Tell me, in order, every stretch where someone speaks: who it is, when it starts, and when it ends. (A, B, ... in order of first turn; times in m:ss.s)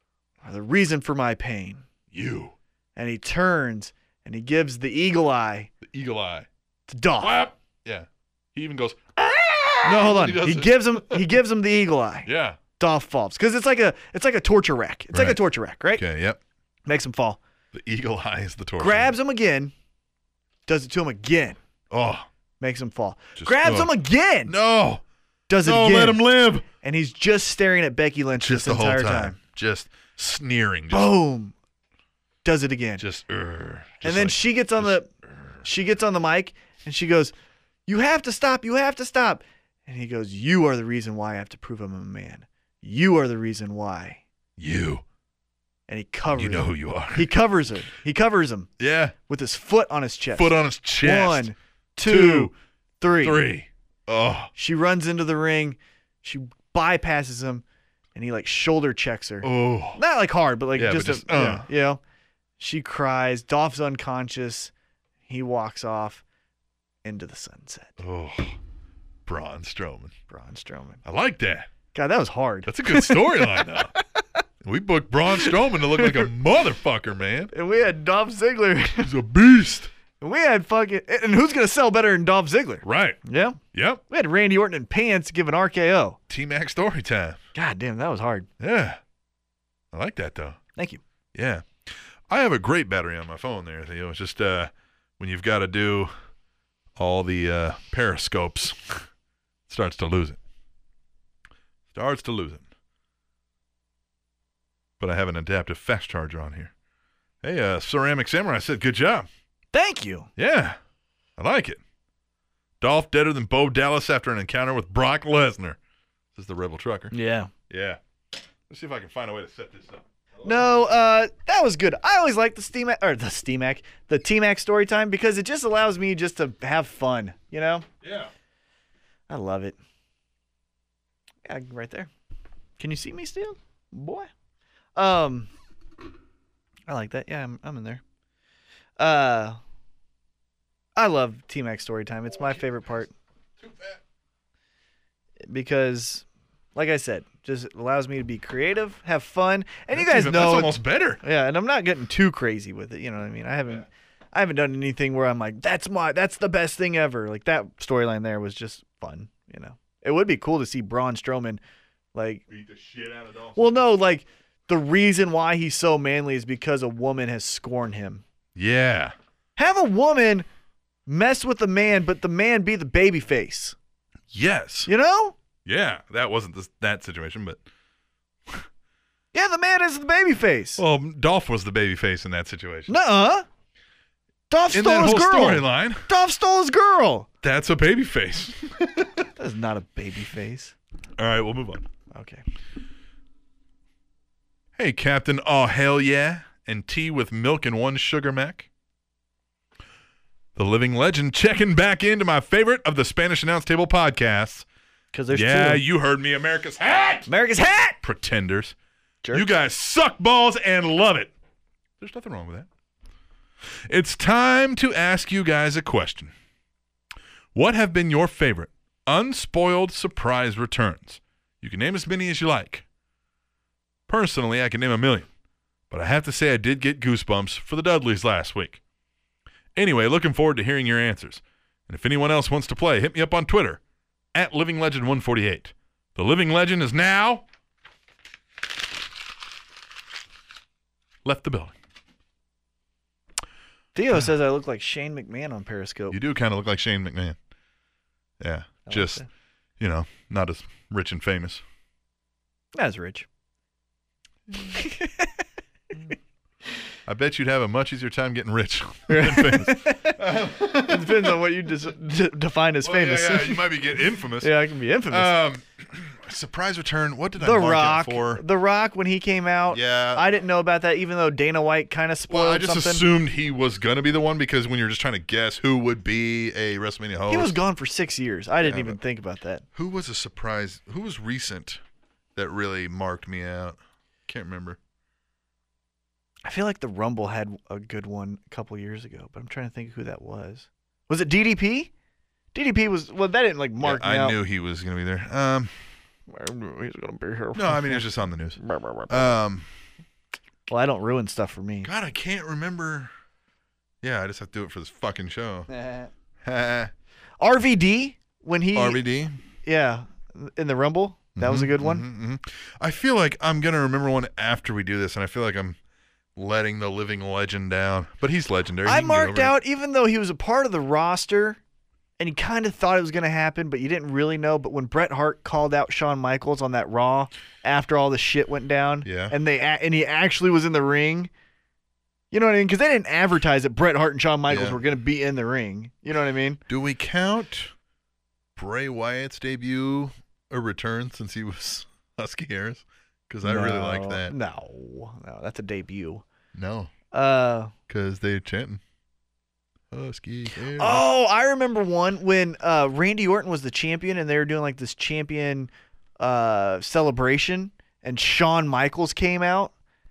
0:00.4-0:01.8 A
0:02.1-0:02.6 B
0:03.0-0:05.7 A
0:05.8-0:06.5 B
0:06.9-0:07.4 A
0:07.2-0:11.3 B
0:09.8-0:16.0 A
0:12.3-0:12.6 B
0:15.1-0:15.4 B
0:15.9-0:16.4 B
0:16.9-0:17.4 A
0:17.7-0:19.1 B
0:18.8-0:19.7 A
0:20.7-0:21.6 A
0:21.9-0:22.3 B
0:22.6-0:24.5 A
0:23.4-0:23.9 B
0:24.4-0:25.0 B
0:25.5-0:26.2 A
0:25.6-0:26.6 B
0:26.8-0:29.4 A
0:28.4-0:31.2 B
0:30.9-0:31.5 A
0:32.4-0:33.0 A
0:33.0-0:35.5 B
0:34.0-0:35.1 A
0:35.6-0:37.3 A
0:37.9-0:44.2 A
0:44.6-0:45.0 B
0:45.9-0:48.7 A
0:46.3-0:47.3 B
0:48.8-0:49.1 B
0:49.3-0:53.4 A
0:50.3-0:51.5 B
0:52.0-0:52.5 B
0:53.2-0:54.5 B
0:54.5-0:57.6 A
0:58.1-1:02.0 A
0:59.4-1:00.0 B
1:00.8-1:01.7 B
1:02.6-1:04.7 A
1:05.3-1:06.2 A
1:07.0-1:08.0 A
1:08.0-1:08.6 B
1:09.3-1:10.1 B
1:10.3-1:11.0 A
1:11.0-1:11.7 B
1:11.9-1:14.2 A
1:12.6-1:13.9 B
1:14.6-1:17.5 B
1:15.4-1:16.3 A
1:17.5-1:19.1 A
1:19.0-1:19.9 B
1:20.2-1:26.2 A
1:22.8-1:24.0 B
1:26.3-1:27.4 B
1:27.5-1:28.5 A
1:28.6-1:29.0 B
1:29.9-1:30.6 B
1:30.8-1:31.0 A
1:31.3-1:36.1 B
1:37.0-1:39.1 B
1:39.7-1:40.4 B
1:41.9-1:42.6 B
1:45.0-1:46.7 B
1:47.4-1:49.3 B
1:49.7-1:50.3 A
1:50.4-1:50.8 B
1:51.4-1:51.8 B
1:52.8-1:55.8 B
1:56.4-1:57.1 B
1:57.1-1:57.5 A
1:57.7-1:58.0 B
1:58.7-2:00.7 B
2:00.4-2:07.8 A
2:08.0-2:08.3 B
2:09.3-2:09.8 A
2:11.4-2:12.1 A
2:12.8-2:14.3 A
2:15.0-2:15.5 A
2:16.9-2:18.0 A
2:19.0-2:19.6 A
2:21.0-2:23.1 A
2:23.6-2:24.0 B
2:25.5-2:41.6 A
2:29.9-2:31.2 B
2:42.1-2:42.4 A
2:42.5-2:43.8 B
2:43.6-2:48.2 A
2:48.6-2:49.1 B
2:49.6-2:50.4 A
2:51.1-2:53.8 A
2:54.3-2:54.9 B
2:54.9-2:55.4 A
2:55.6-2:57.6 B
2:59.3-3:00.8 A
3:00.8-3:02.9 B
3:02.9-3:03.4 A
3:04.5-3:07.3 A
3:04.7-3:06.0 B
3:07.4-3:09.3 B
3:09.4-3:10.7 A
3:11.2-3:11.8 B
3:12.1-3:12.4 A
3:14.8-3:18.7 B
3:20.6-3:24.6 B
3:25.1-3:25.8 A
3:25.3-3:27.3 B
3:27.3-3:28.0 A
3:28.0-3:28.7 B
3:29.3-3:31.3 B
3:32.0-3:32.7 B
3:33.9-3:36.3 B
3:37.6-3:42.8 B
3:44.1-3:45.3 B
3:45.9-3:48.8 B
3:49.7-3:53.8 B
3:54.3-3:57.4 B
4:01.2-4:01.7 B
4:03.9-4:06.2 A
4:06.1-4:07.4 B
4:08.4-4:09.2 B
4:08.8-4:09.3 A
4:09.8-4:11.6 B
4:12.7-4:13.3 A
4:14.6-4:15.4 A
4:17.1-4:21.4 B
4:19.1-4:23.7 A
4:22.8-4:24.5 B
4:24.4-4:25.4 A
4:25.1-4:28.4 B
4:27.4-4:33.1 A
4:29.7-4:30.2 B
4:32.3-4:37.6 B
4:37.3-4:39.6 A
4:38.6-4:39.0 B
4:39.7-4:41.8 B
4:42.4-4:44.8 B
4:46.4-4:51.9 A
4:52.5-4:54.4 A
4:53.8-4:55.7 B
4:56.3-4:58.0 A
4:57.5-4:59.7 B
4:58.6-4:59.4 A
5:00.7-5:01.9 A
5:01.8-5:03.1 B
5:04.0-5:05.7 B
5:05.7-5:06.1 A
5:06.4-5:06.9 B
5:07.4-5:09.0 A
5:08.7-5:09.4 B
5:09.6-5:12.0 A
5:11.4-5:15.8 B
5:16.4-5:19.5 B
5:18.8-5:21.6 A
5:22.2-5:31.3 A
5:29.0-5:29.3 B
5:32.3-5:36.6 A
5:34.5-5:34.8 B
5:36.7-5:37.7 B
5:38.6-5:44.4 B
5:43.4-5:46.2 A
5:46.5-5:46.9 B
5:47.1-5:47.7 A
5:47.9-5:48.8 B
5:49.9-5:51.0 B
5:50.7-5:59.7 A